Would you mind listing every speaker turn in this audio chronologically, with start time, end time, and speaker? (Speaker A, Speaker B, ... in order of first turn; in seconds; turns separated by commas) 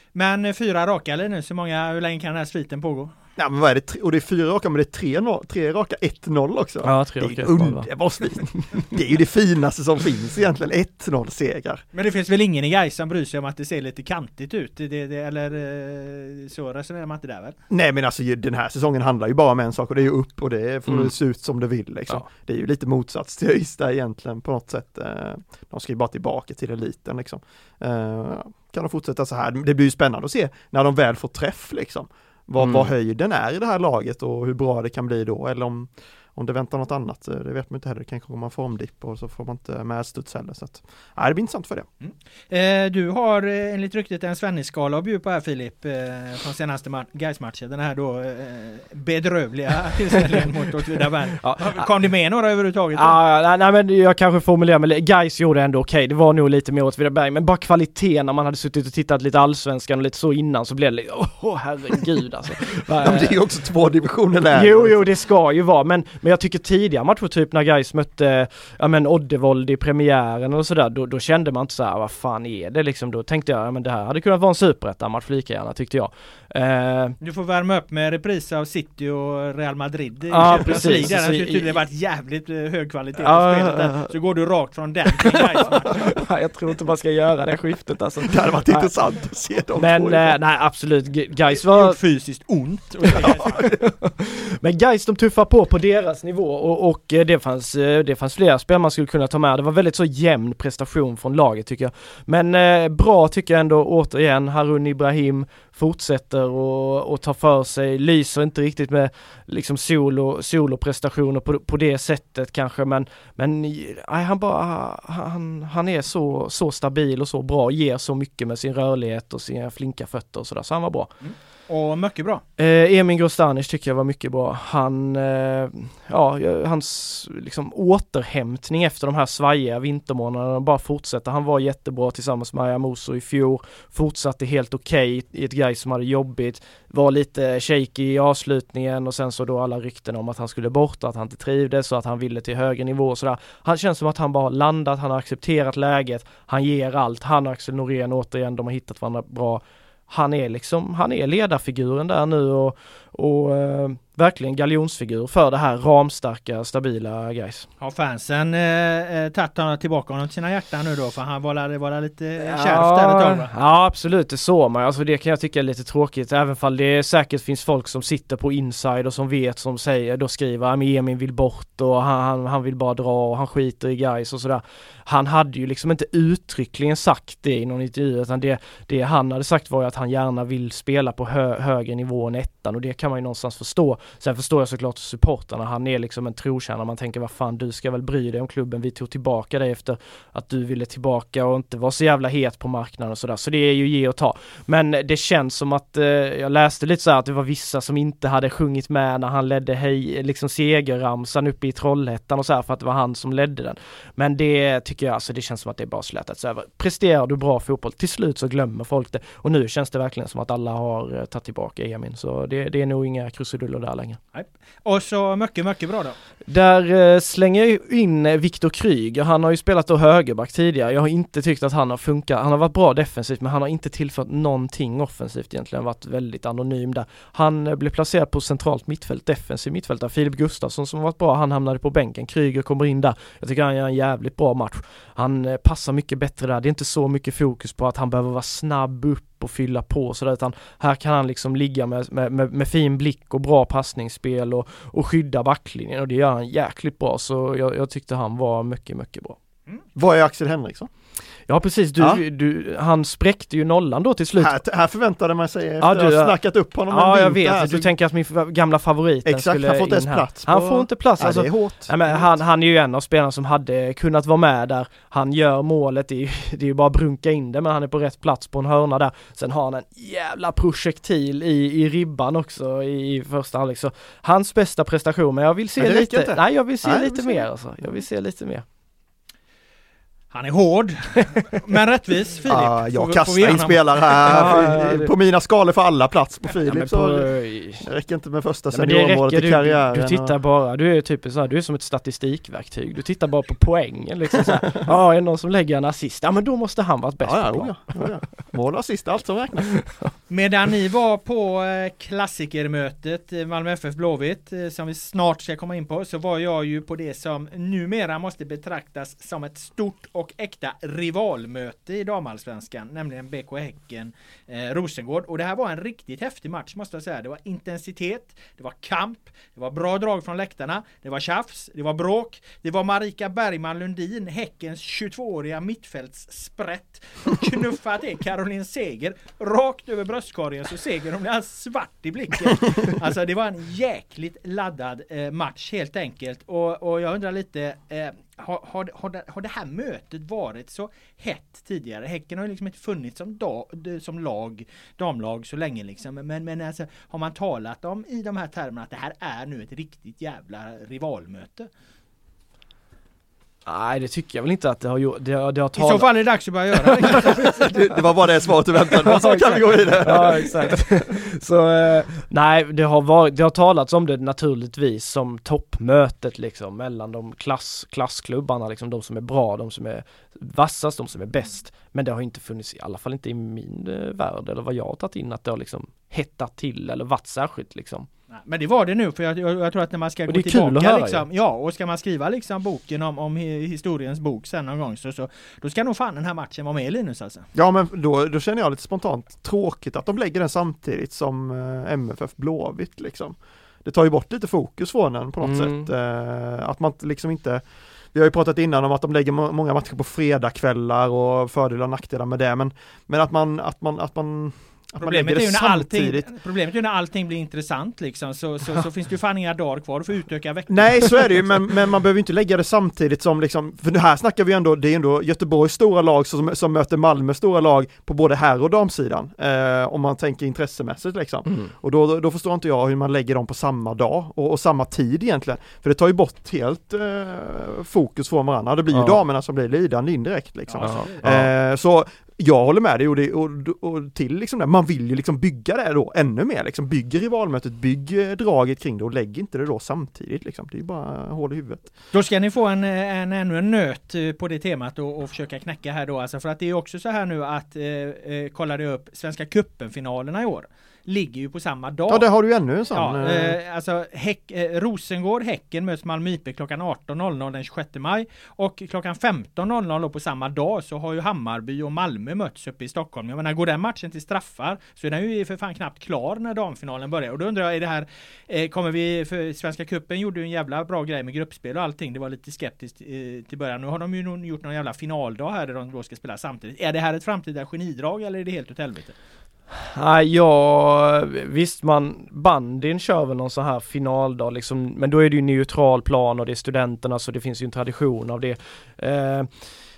Speaker A: 0.1-3.1, Speaker B: 3.4-11.8, Speaker C: 6.8-7.9, Speaker A: 11.9-17.6, Speaker B: 17.7-41.9, Speaker C: 32.6-32.9, Speaker A: 42.0-53.2, Speaker C: 51.4-51.9, Speaker C: 53.0-63.3, Speaker B: 63.0-65.1, Speaker C: 64.5-77.2, Speaker A: 77.2-86.2, Speaker C: 80.3-81.8, Speaker C: 83.2-84.1, Speaker C: 85.8-88.9, Speaker B: 88.2-90.4, Speaker C: 89.8-92.0, Speaker A: 91.5-93.8, Speaker C: 93.0-121.1, Speaker A: 121.2-122.4, Speaker C: 122.6-157.7, Speaker A: 157.8-163.5, Speaker C: 162.4-214.2, Speaker A: 214.3-216.2, Speaker C: 216.5-249.4, Speaker B: 250.0-250.9, Speaker C: 251.5-254.6, Speaker B: 252.0-252.2, Speaker B: 254.4-257.9, Speaker C: 255.8-256.3, Speaker C: 256.9-278.6, Speaker B: 259.3-262.4, Speaker B: 275.8-278.0, Speaker A: 280.3-284.3, Speaker B: 282.5-290.3, Speaker C: 284.2-285.1, Speaker C: 286.6-287.9, Speaker C: 288.7-298.2, Speaker B: 297.2-299.8, Speaker C: 299.8-300.1, Speaker A: 300.3-351.7, Speaker C: 353.7-356.1, Speaker A: 355.8-357.8, Speaker C: 356.8-357.7, Speaker B: 357.4-360.8, Speaker C: 358.9-378.1, Speaker A: 378.3-387.5, Speaker C: 380.3-381.2, Speaker B: 387.5-406.3, Speaker C: 395.4-395.9, Speaker A: 405.0-411.3, Speaker B: 410.7-441.9, Speaker C: 428.9-429.2, Speaker A: 430.7-431.2, Speaker C: 430.8-431.5, Speaker A: 442.1-452.3, Speaker B: 452.1-453.6, Speaker A: 452.9-479.1, Speaker C: 479.8-489.5